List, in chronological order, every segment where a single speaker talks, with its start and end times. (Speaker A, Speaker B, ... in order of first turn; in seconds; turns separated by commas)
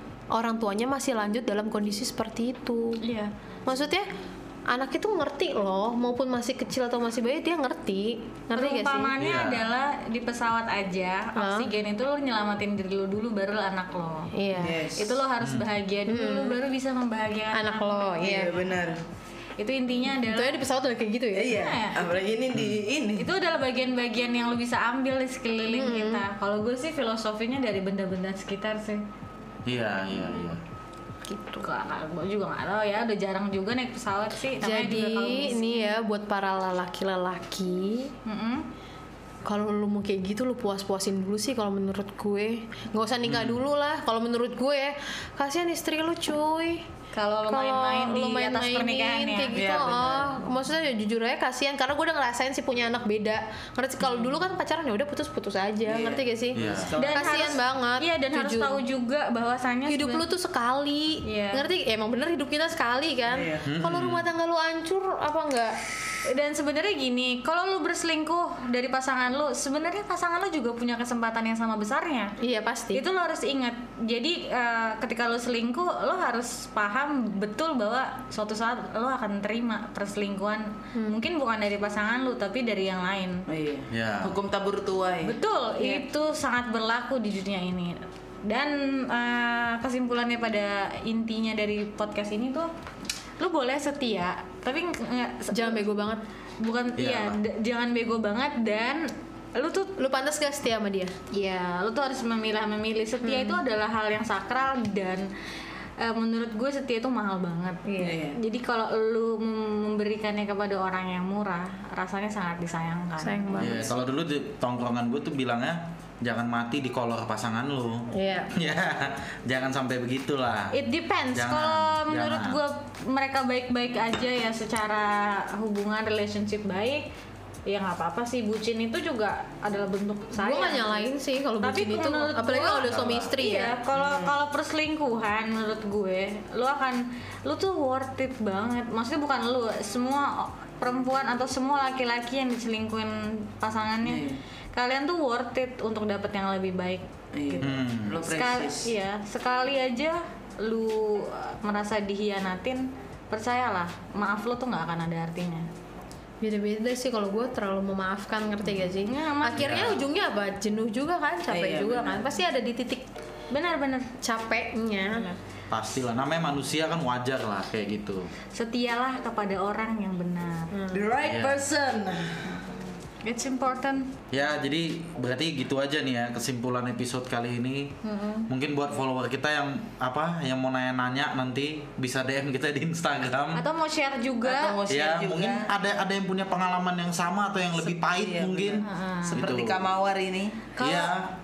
Speaker A: 0.3-3.0, Speaker B: 3.0-3.3, Speaker A: 3.6-4.1, Speaker A: 4.7-9.1, Speaker B: 8.5-14.3, Speaker C: 9.2-9.7, Speaker A: 11.3-11.7, Speaker A: 14.3-14.8, Speaker D: 14.5-15.2, Speaker B: 14.9-18.2, Speaker C: 15.4-15.7, Speaker A: 16.1-16.6, Speaker A: 17.5-18.6, Speaker D: 18.2-19.0, Speaker B: 19.6-20.6, Speaker A: 20.1-21.6, Speaker D: 21.3-23.3, Speaker B: 21.5-22.2, Speaker C: 22.5-22.8, Speaker B: 23.1-29.0, Speaker A: 25.6-26.2, Speaker C: 29.6-30.6, Speaker A: 31.2-31.6, Speaker B: 31.6-35.9, Speaker A: 34.6-38.1, Speaker B: 38.2-38.6, Speaker A: 39.4-46.9, Speaker C: 43.2-43.6, Speaker B: 47.1-49.5, Speaker A: 47.5-58.8, Speaker D: 49.5-50.4, Speaker B: 54.0-54.3, Speaker D: 55.8-57.5, Speaker C: 56.5-56.9, Speaker B: 57.0-60.2, Speaker A: 59.9-65.8, Speaker B: 61.2-61.6, Speaker D: 63.3-63.6, Speaker C: 63.6-64.2, Speaker B: 66.2-72.3, Speaker A: 72.4-73.0, Speaker B: 72.9-83.4, Speaker D: 83.5-85.3, Speaker C: 83.9-84.3, Speaker B: 85.2-92.7, Speaker A: 85.8-86.0, Speaker B: 93.4-95.8, Speaker A: 95.5-96.2, Speaker B: 96.6-99.9, Speaker C: 97.0-97.4, Speaker A: 100.0-101.1, Speaker B: 101.3-105.3, Speaker A: 103.2-103.6, Speaker B: 106.0-113.7, Speaker A: 107.9-108.2, Speaker D: 108.0-108.4, Speaker A: 113.2-113.8, Speaker D: 113.6-113.9, Speaker C: 113.6-120.8, Speaker A: 118.1-118.5, Speaker B: 120.7-127.0, Speaker C: 121.3-122.6, Speaker B: 127.7-131.1, Speaker A: 130.3-133.8, Speaker B: 131.6-155.7, Speaker C: 132.8-133.3, Speaker D: 133.9-134.3, Speaker D: 144.0-144.4, Speaker D: 147.3-148.9, Speaker C: 147.6-148.2, Speaker A: 156.4-163.1, Speaker B: 158.6-159.9, Speaker C: 159.5-160.1, Speaker D: 161.5-162.3, Speaker B: 163.5-164.1, Speaker A: 164.2-165.2, Speaker B: 165.1-165.4, Speaker C: 165.7-168.3, Speaker B: 168.5-170.7, Speaker A: 170.7-171.0, Speaker D: 170.9-172.6, Speaker C: 171.2-171.7, Speaker B: 173.2-174.1, Speaker C: 174.3-183.6, Speaker B: 183.5-184.8, Speaker D: 184.4-185.7, Speaker C: 184.9-189.9, Speaker D: 187.8-190.6, Speaker B: 188.8-189.4, Speaker B: 190.8-191.1, Speaker C: 190.8-191.3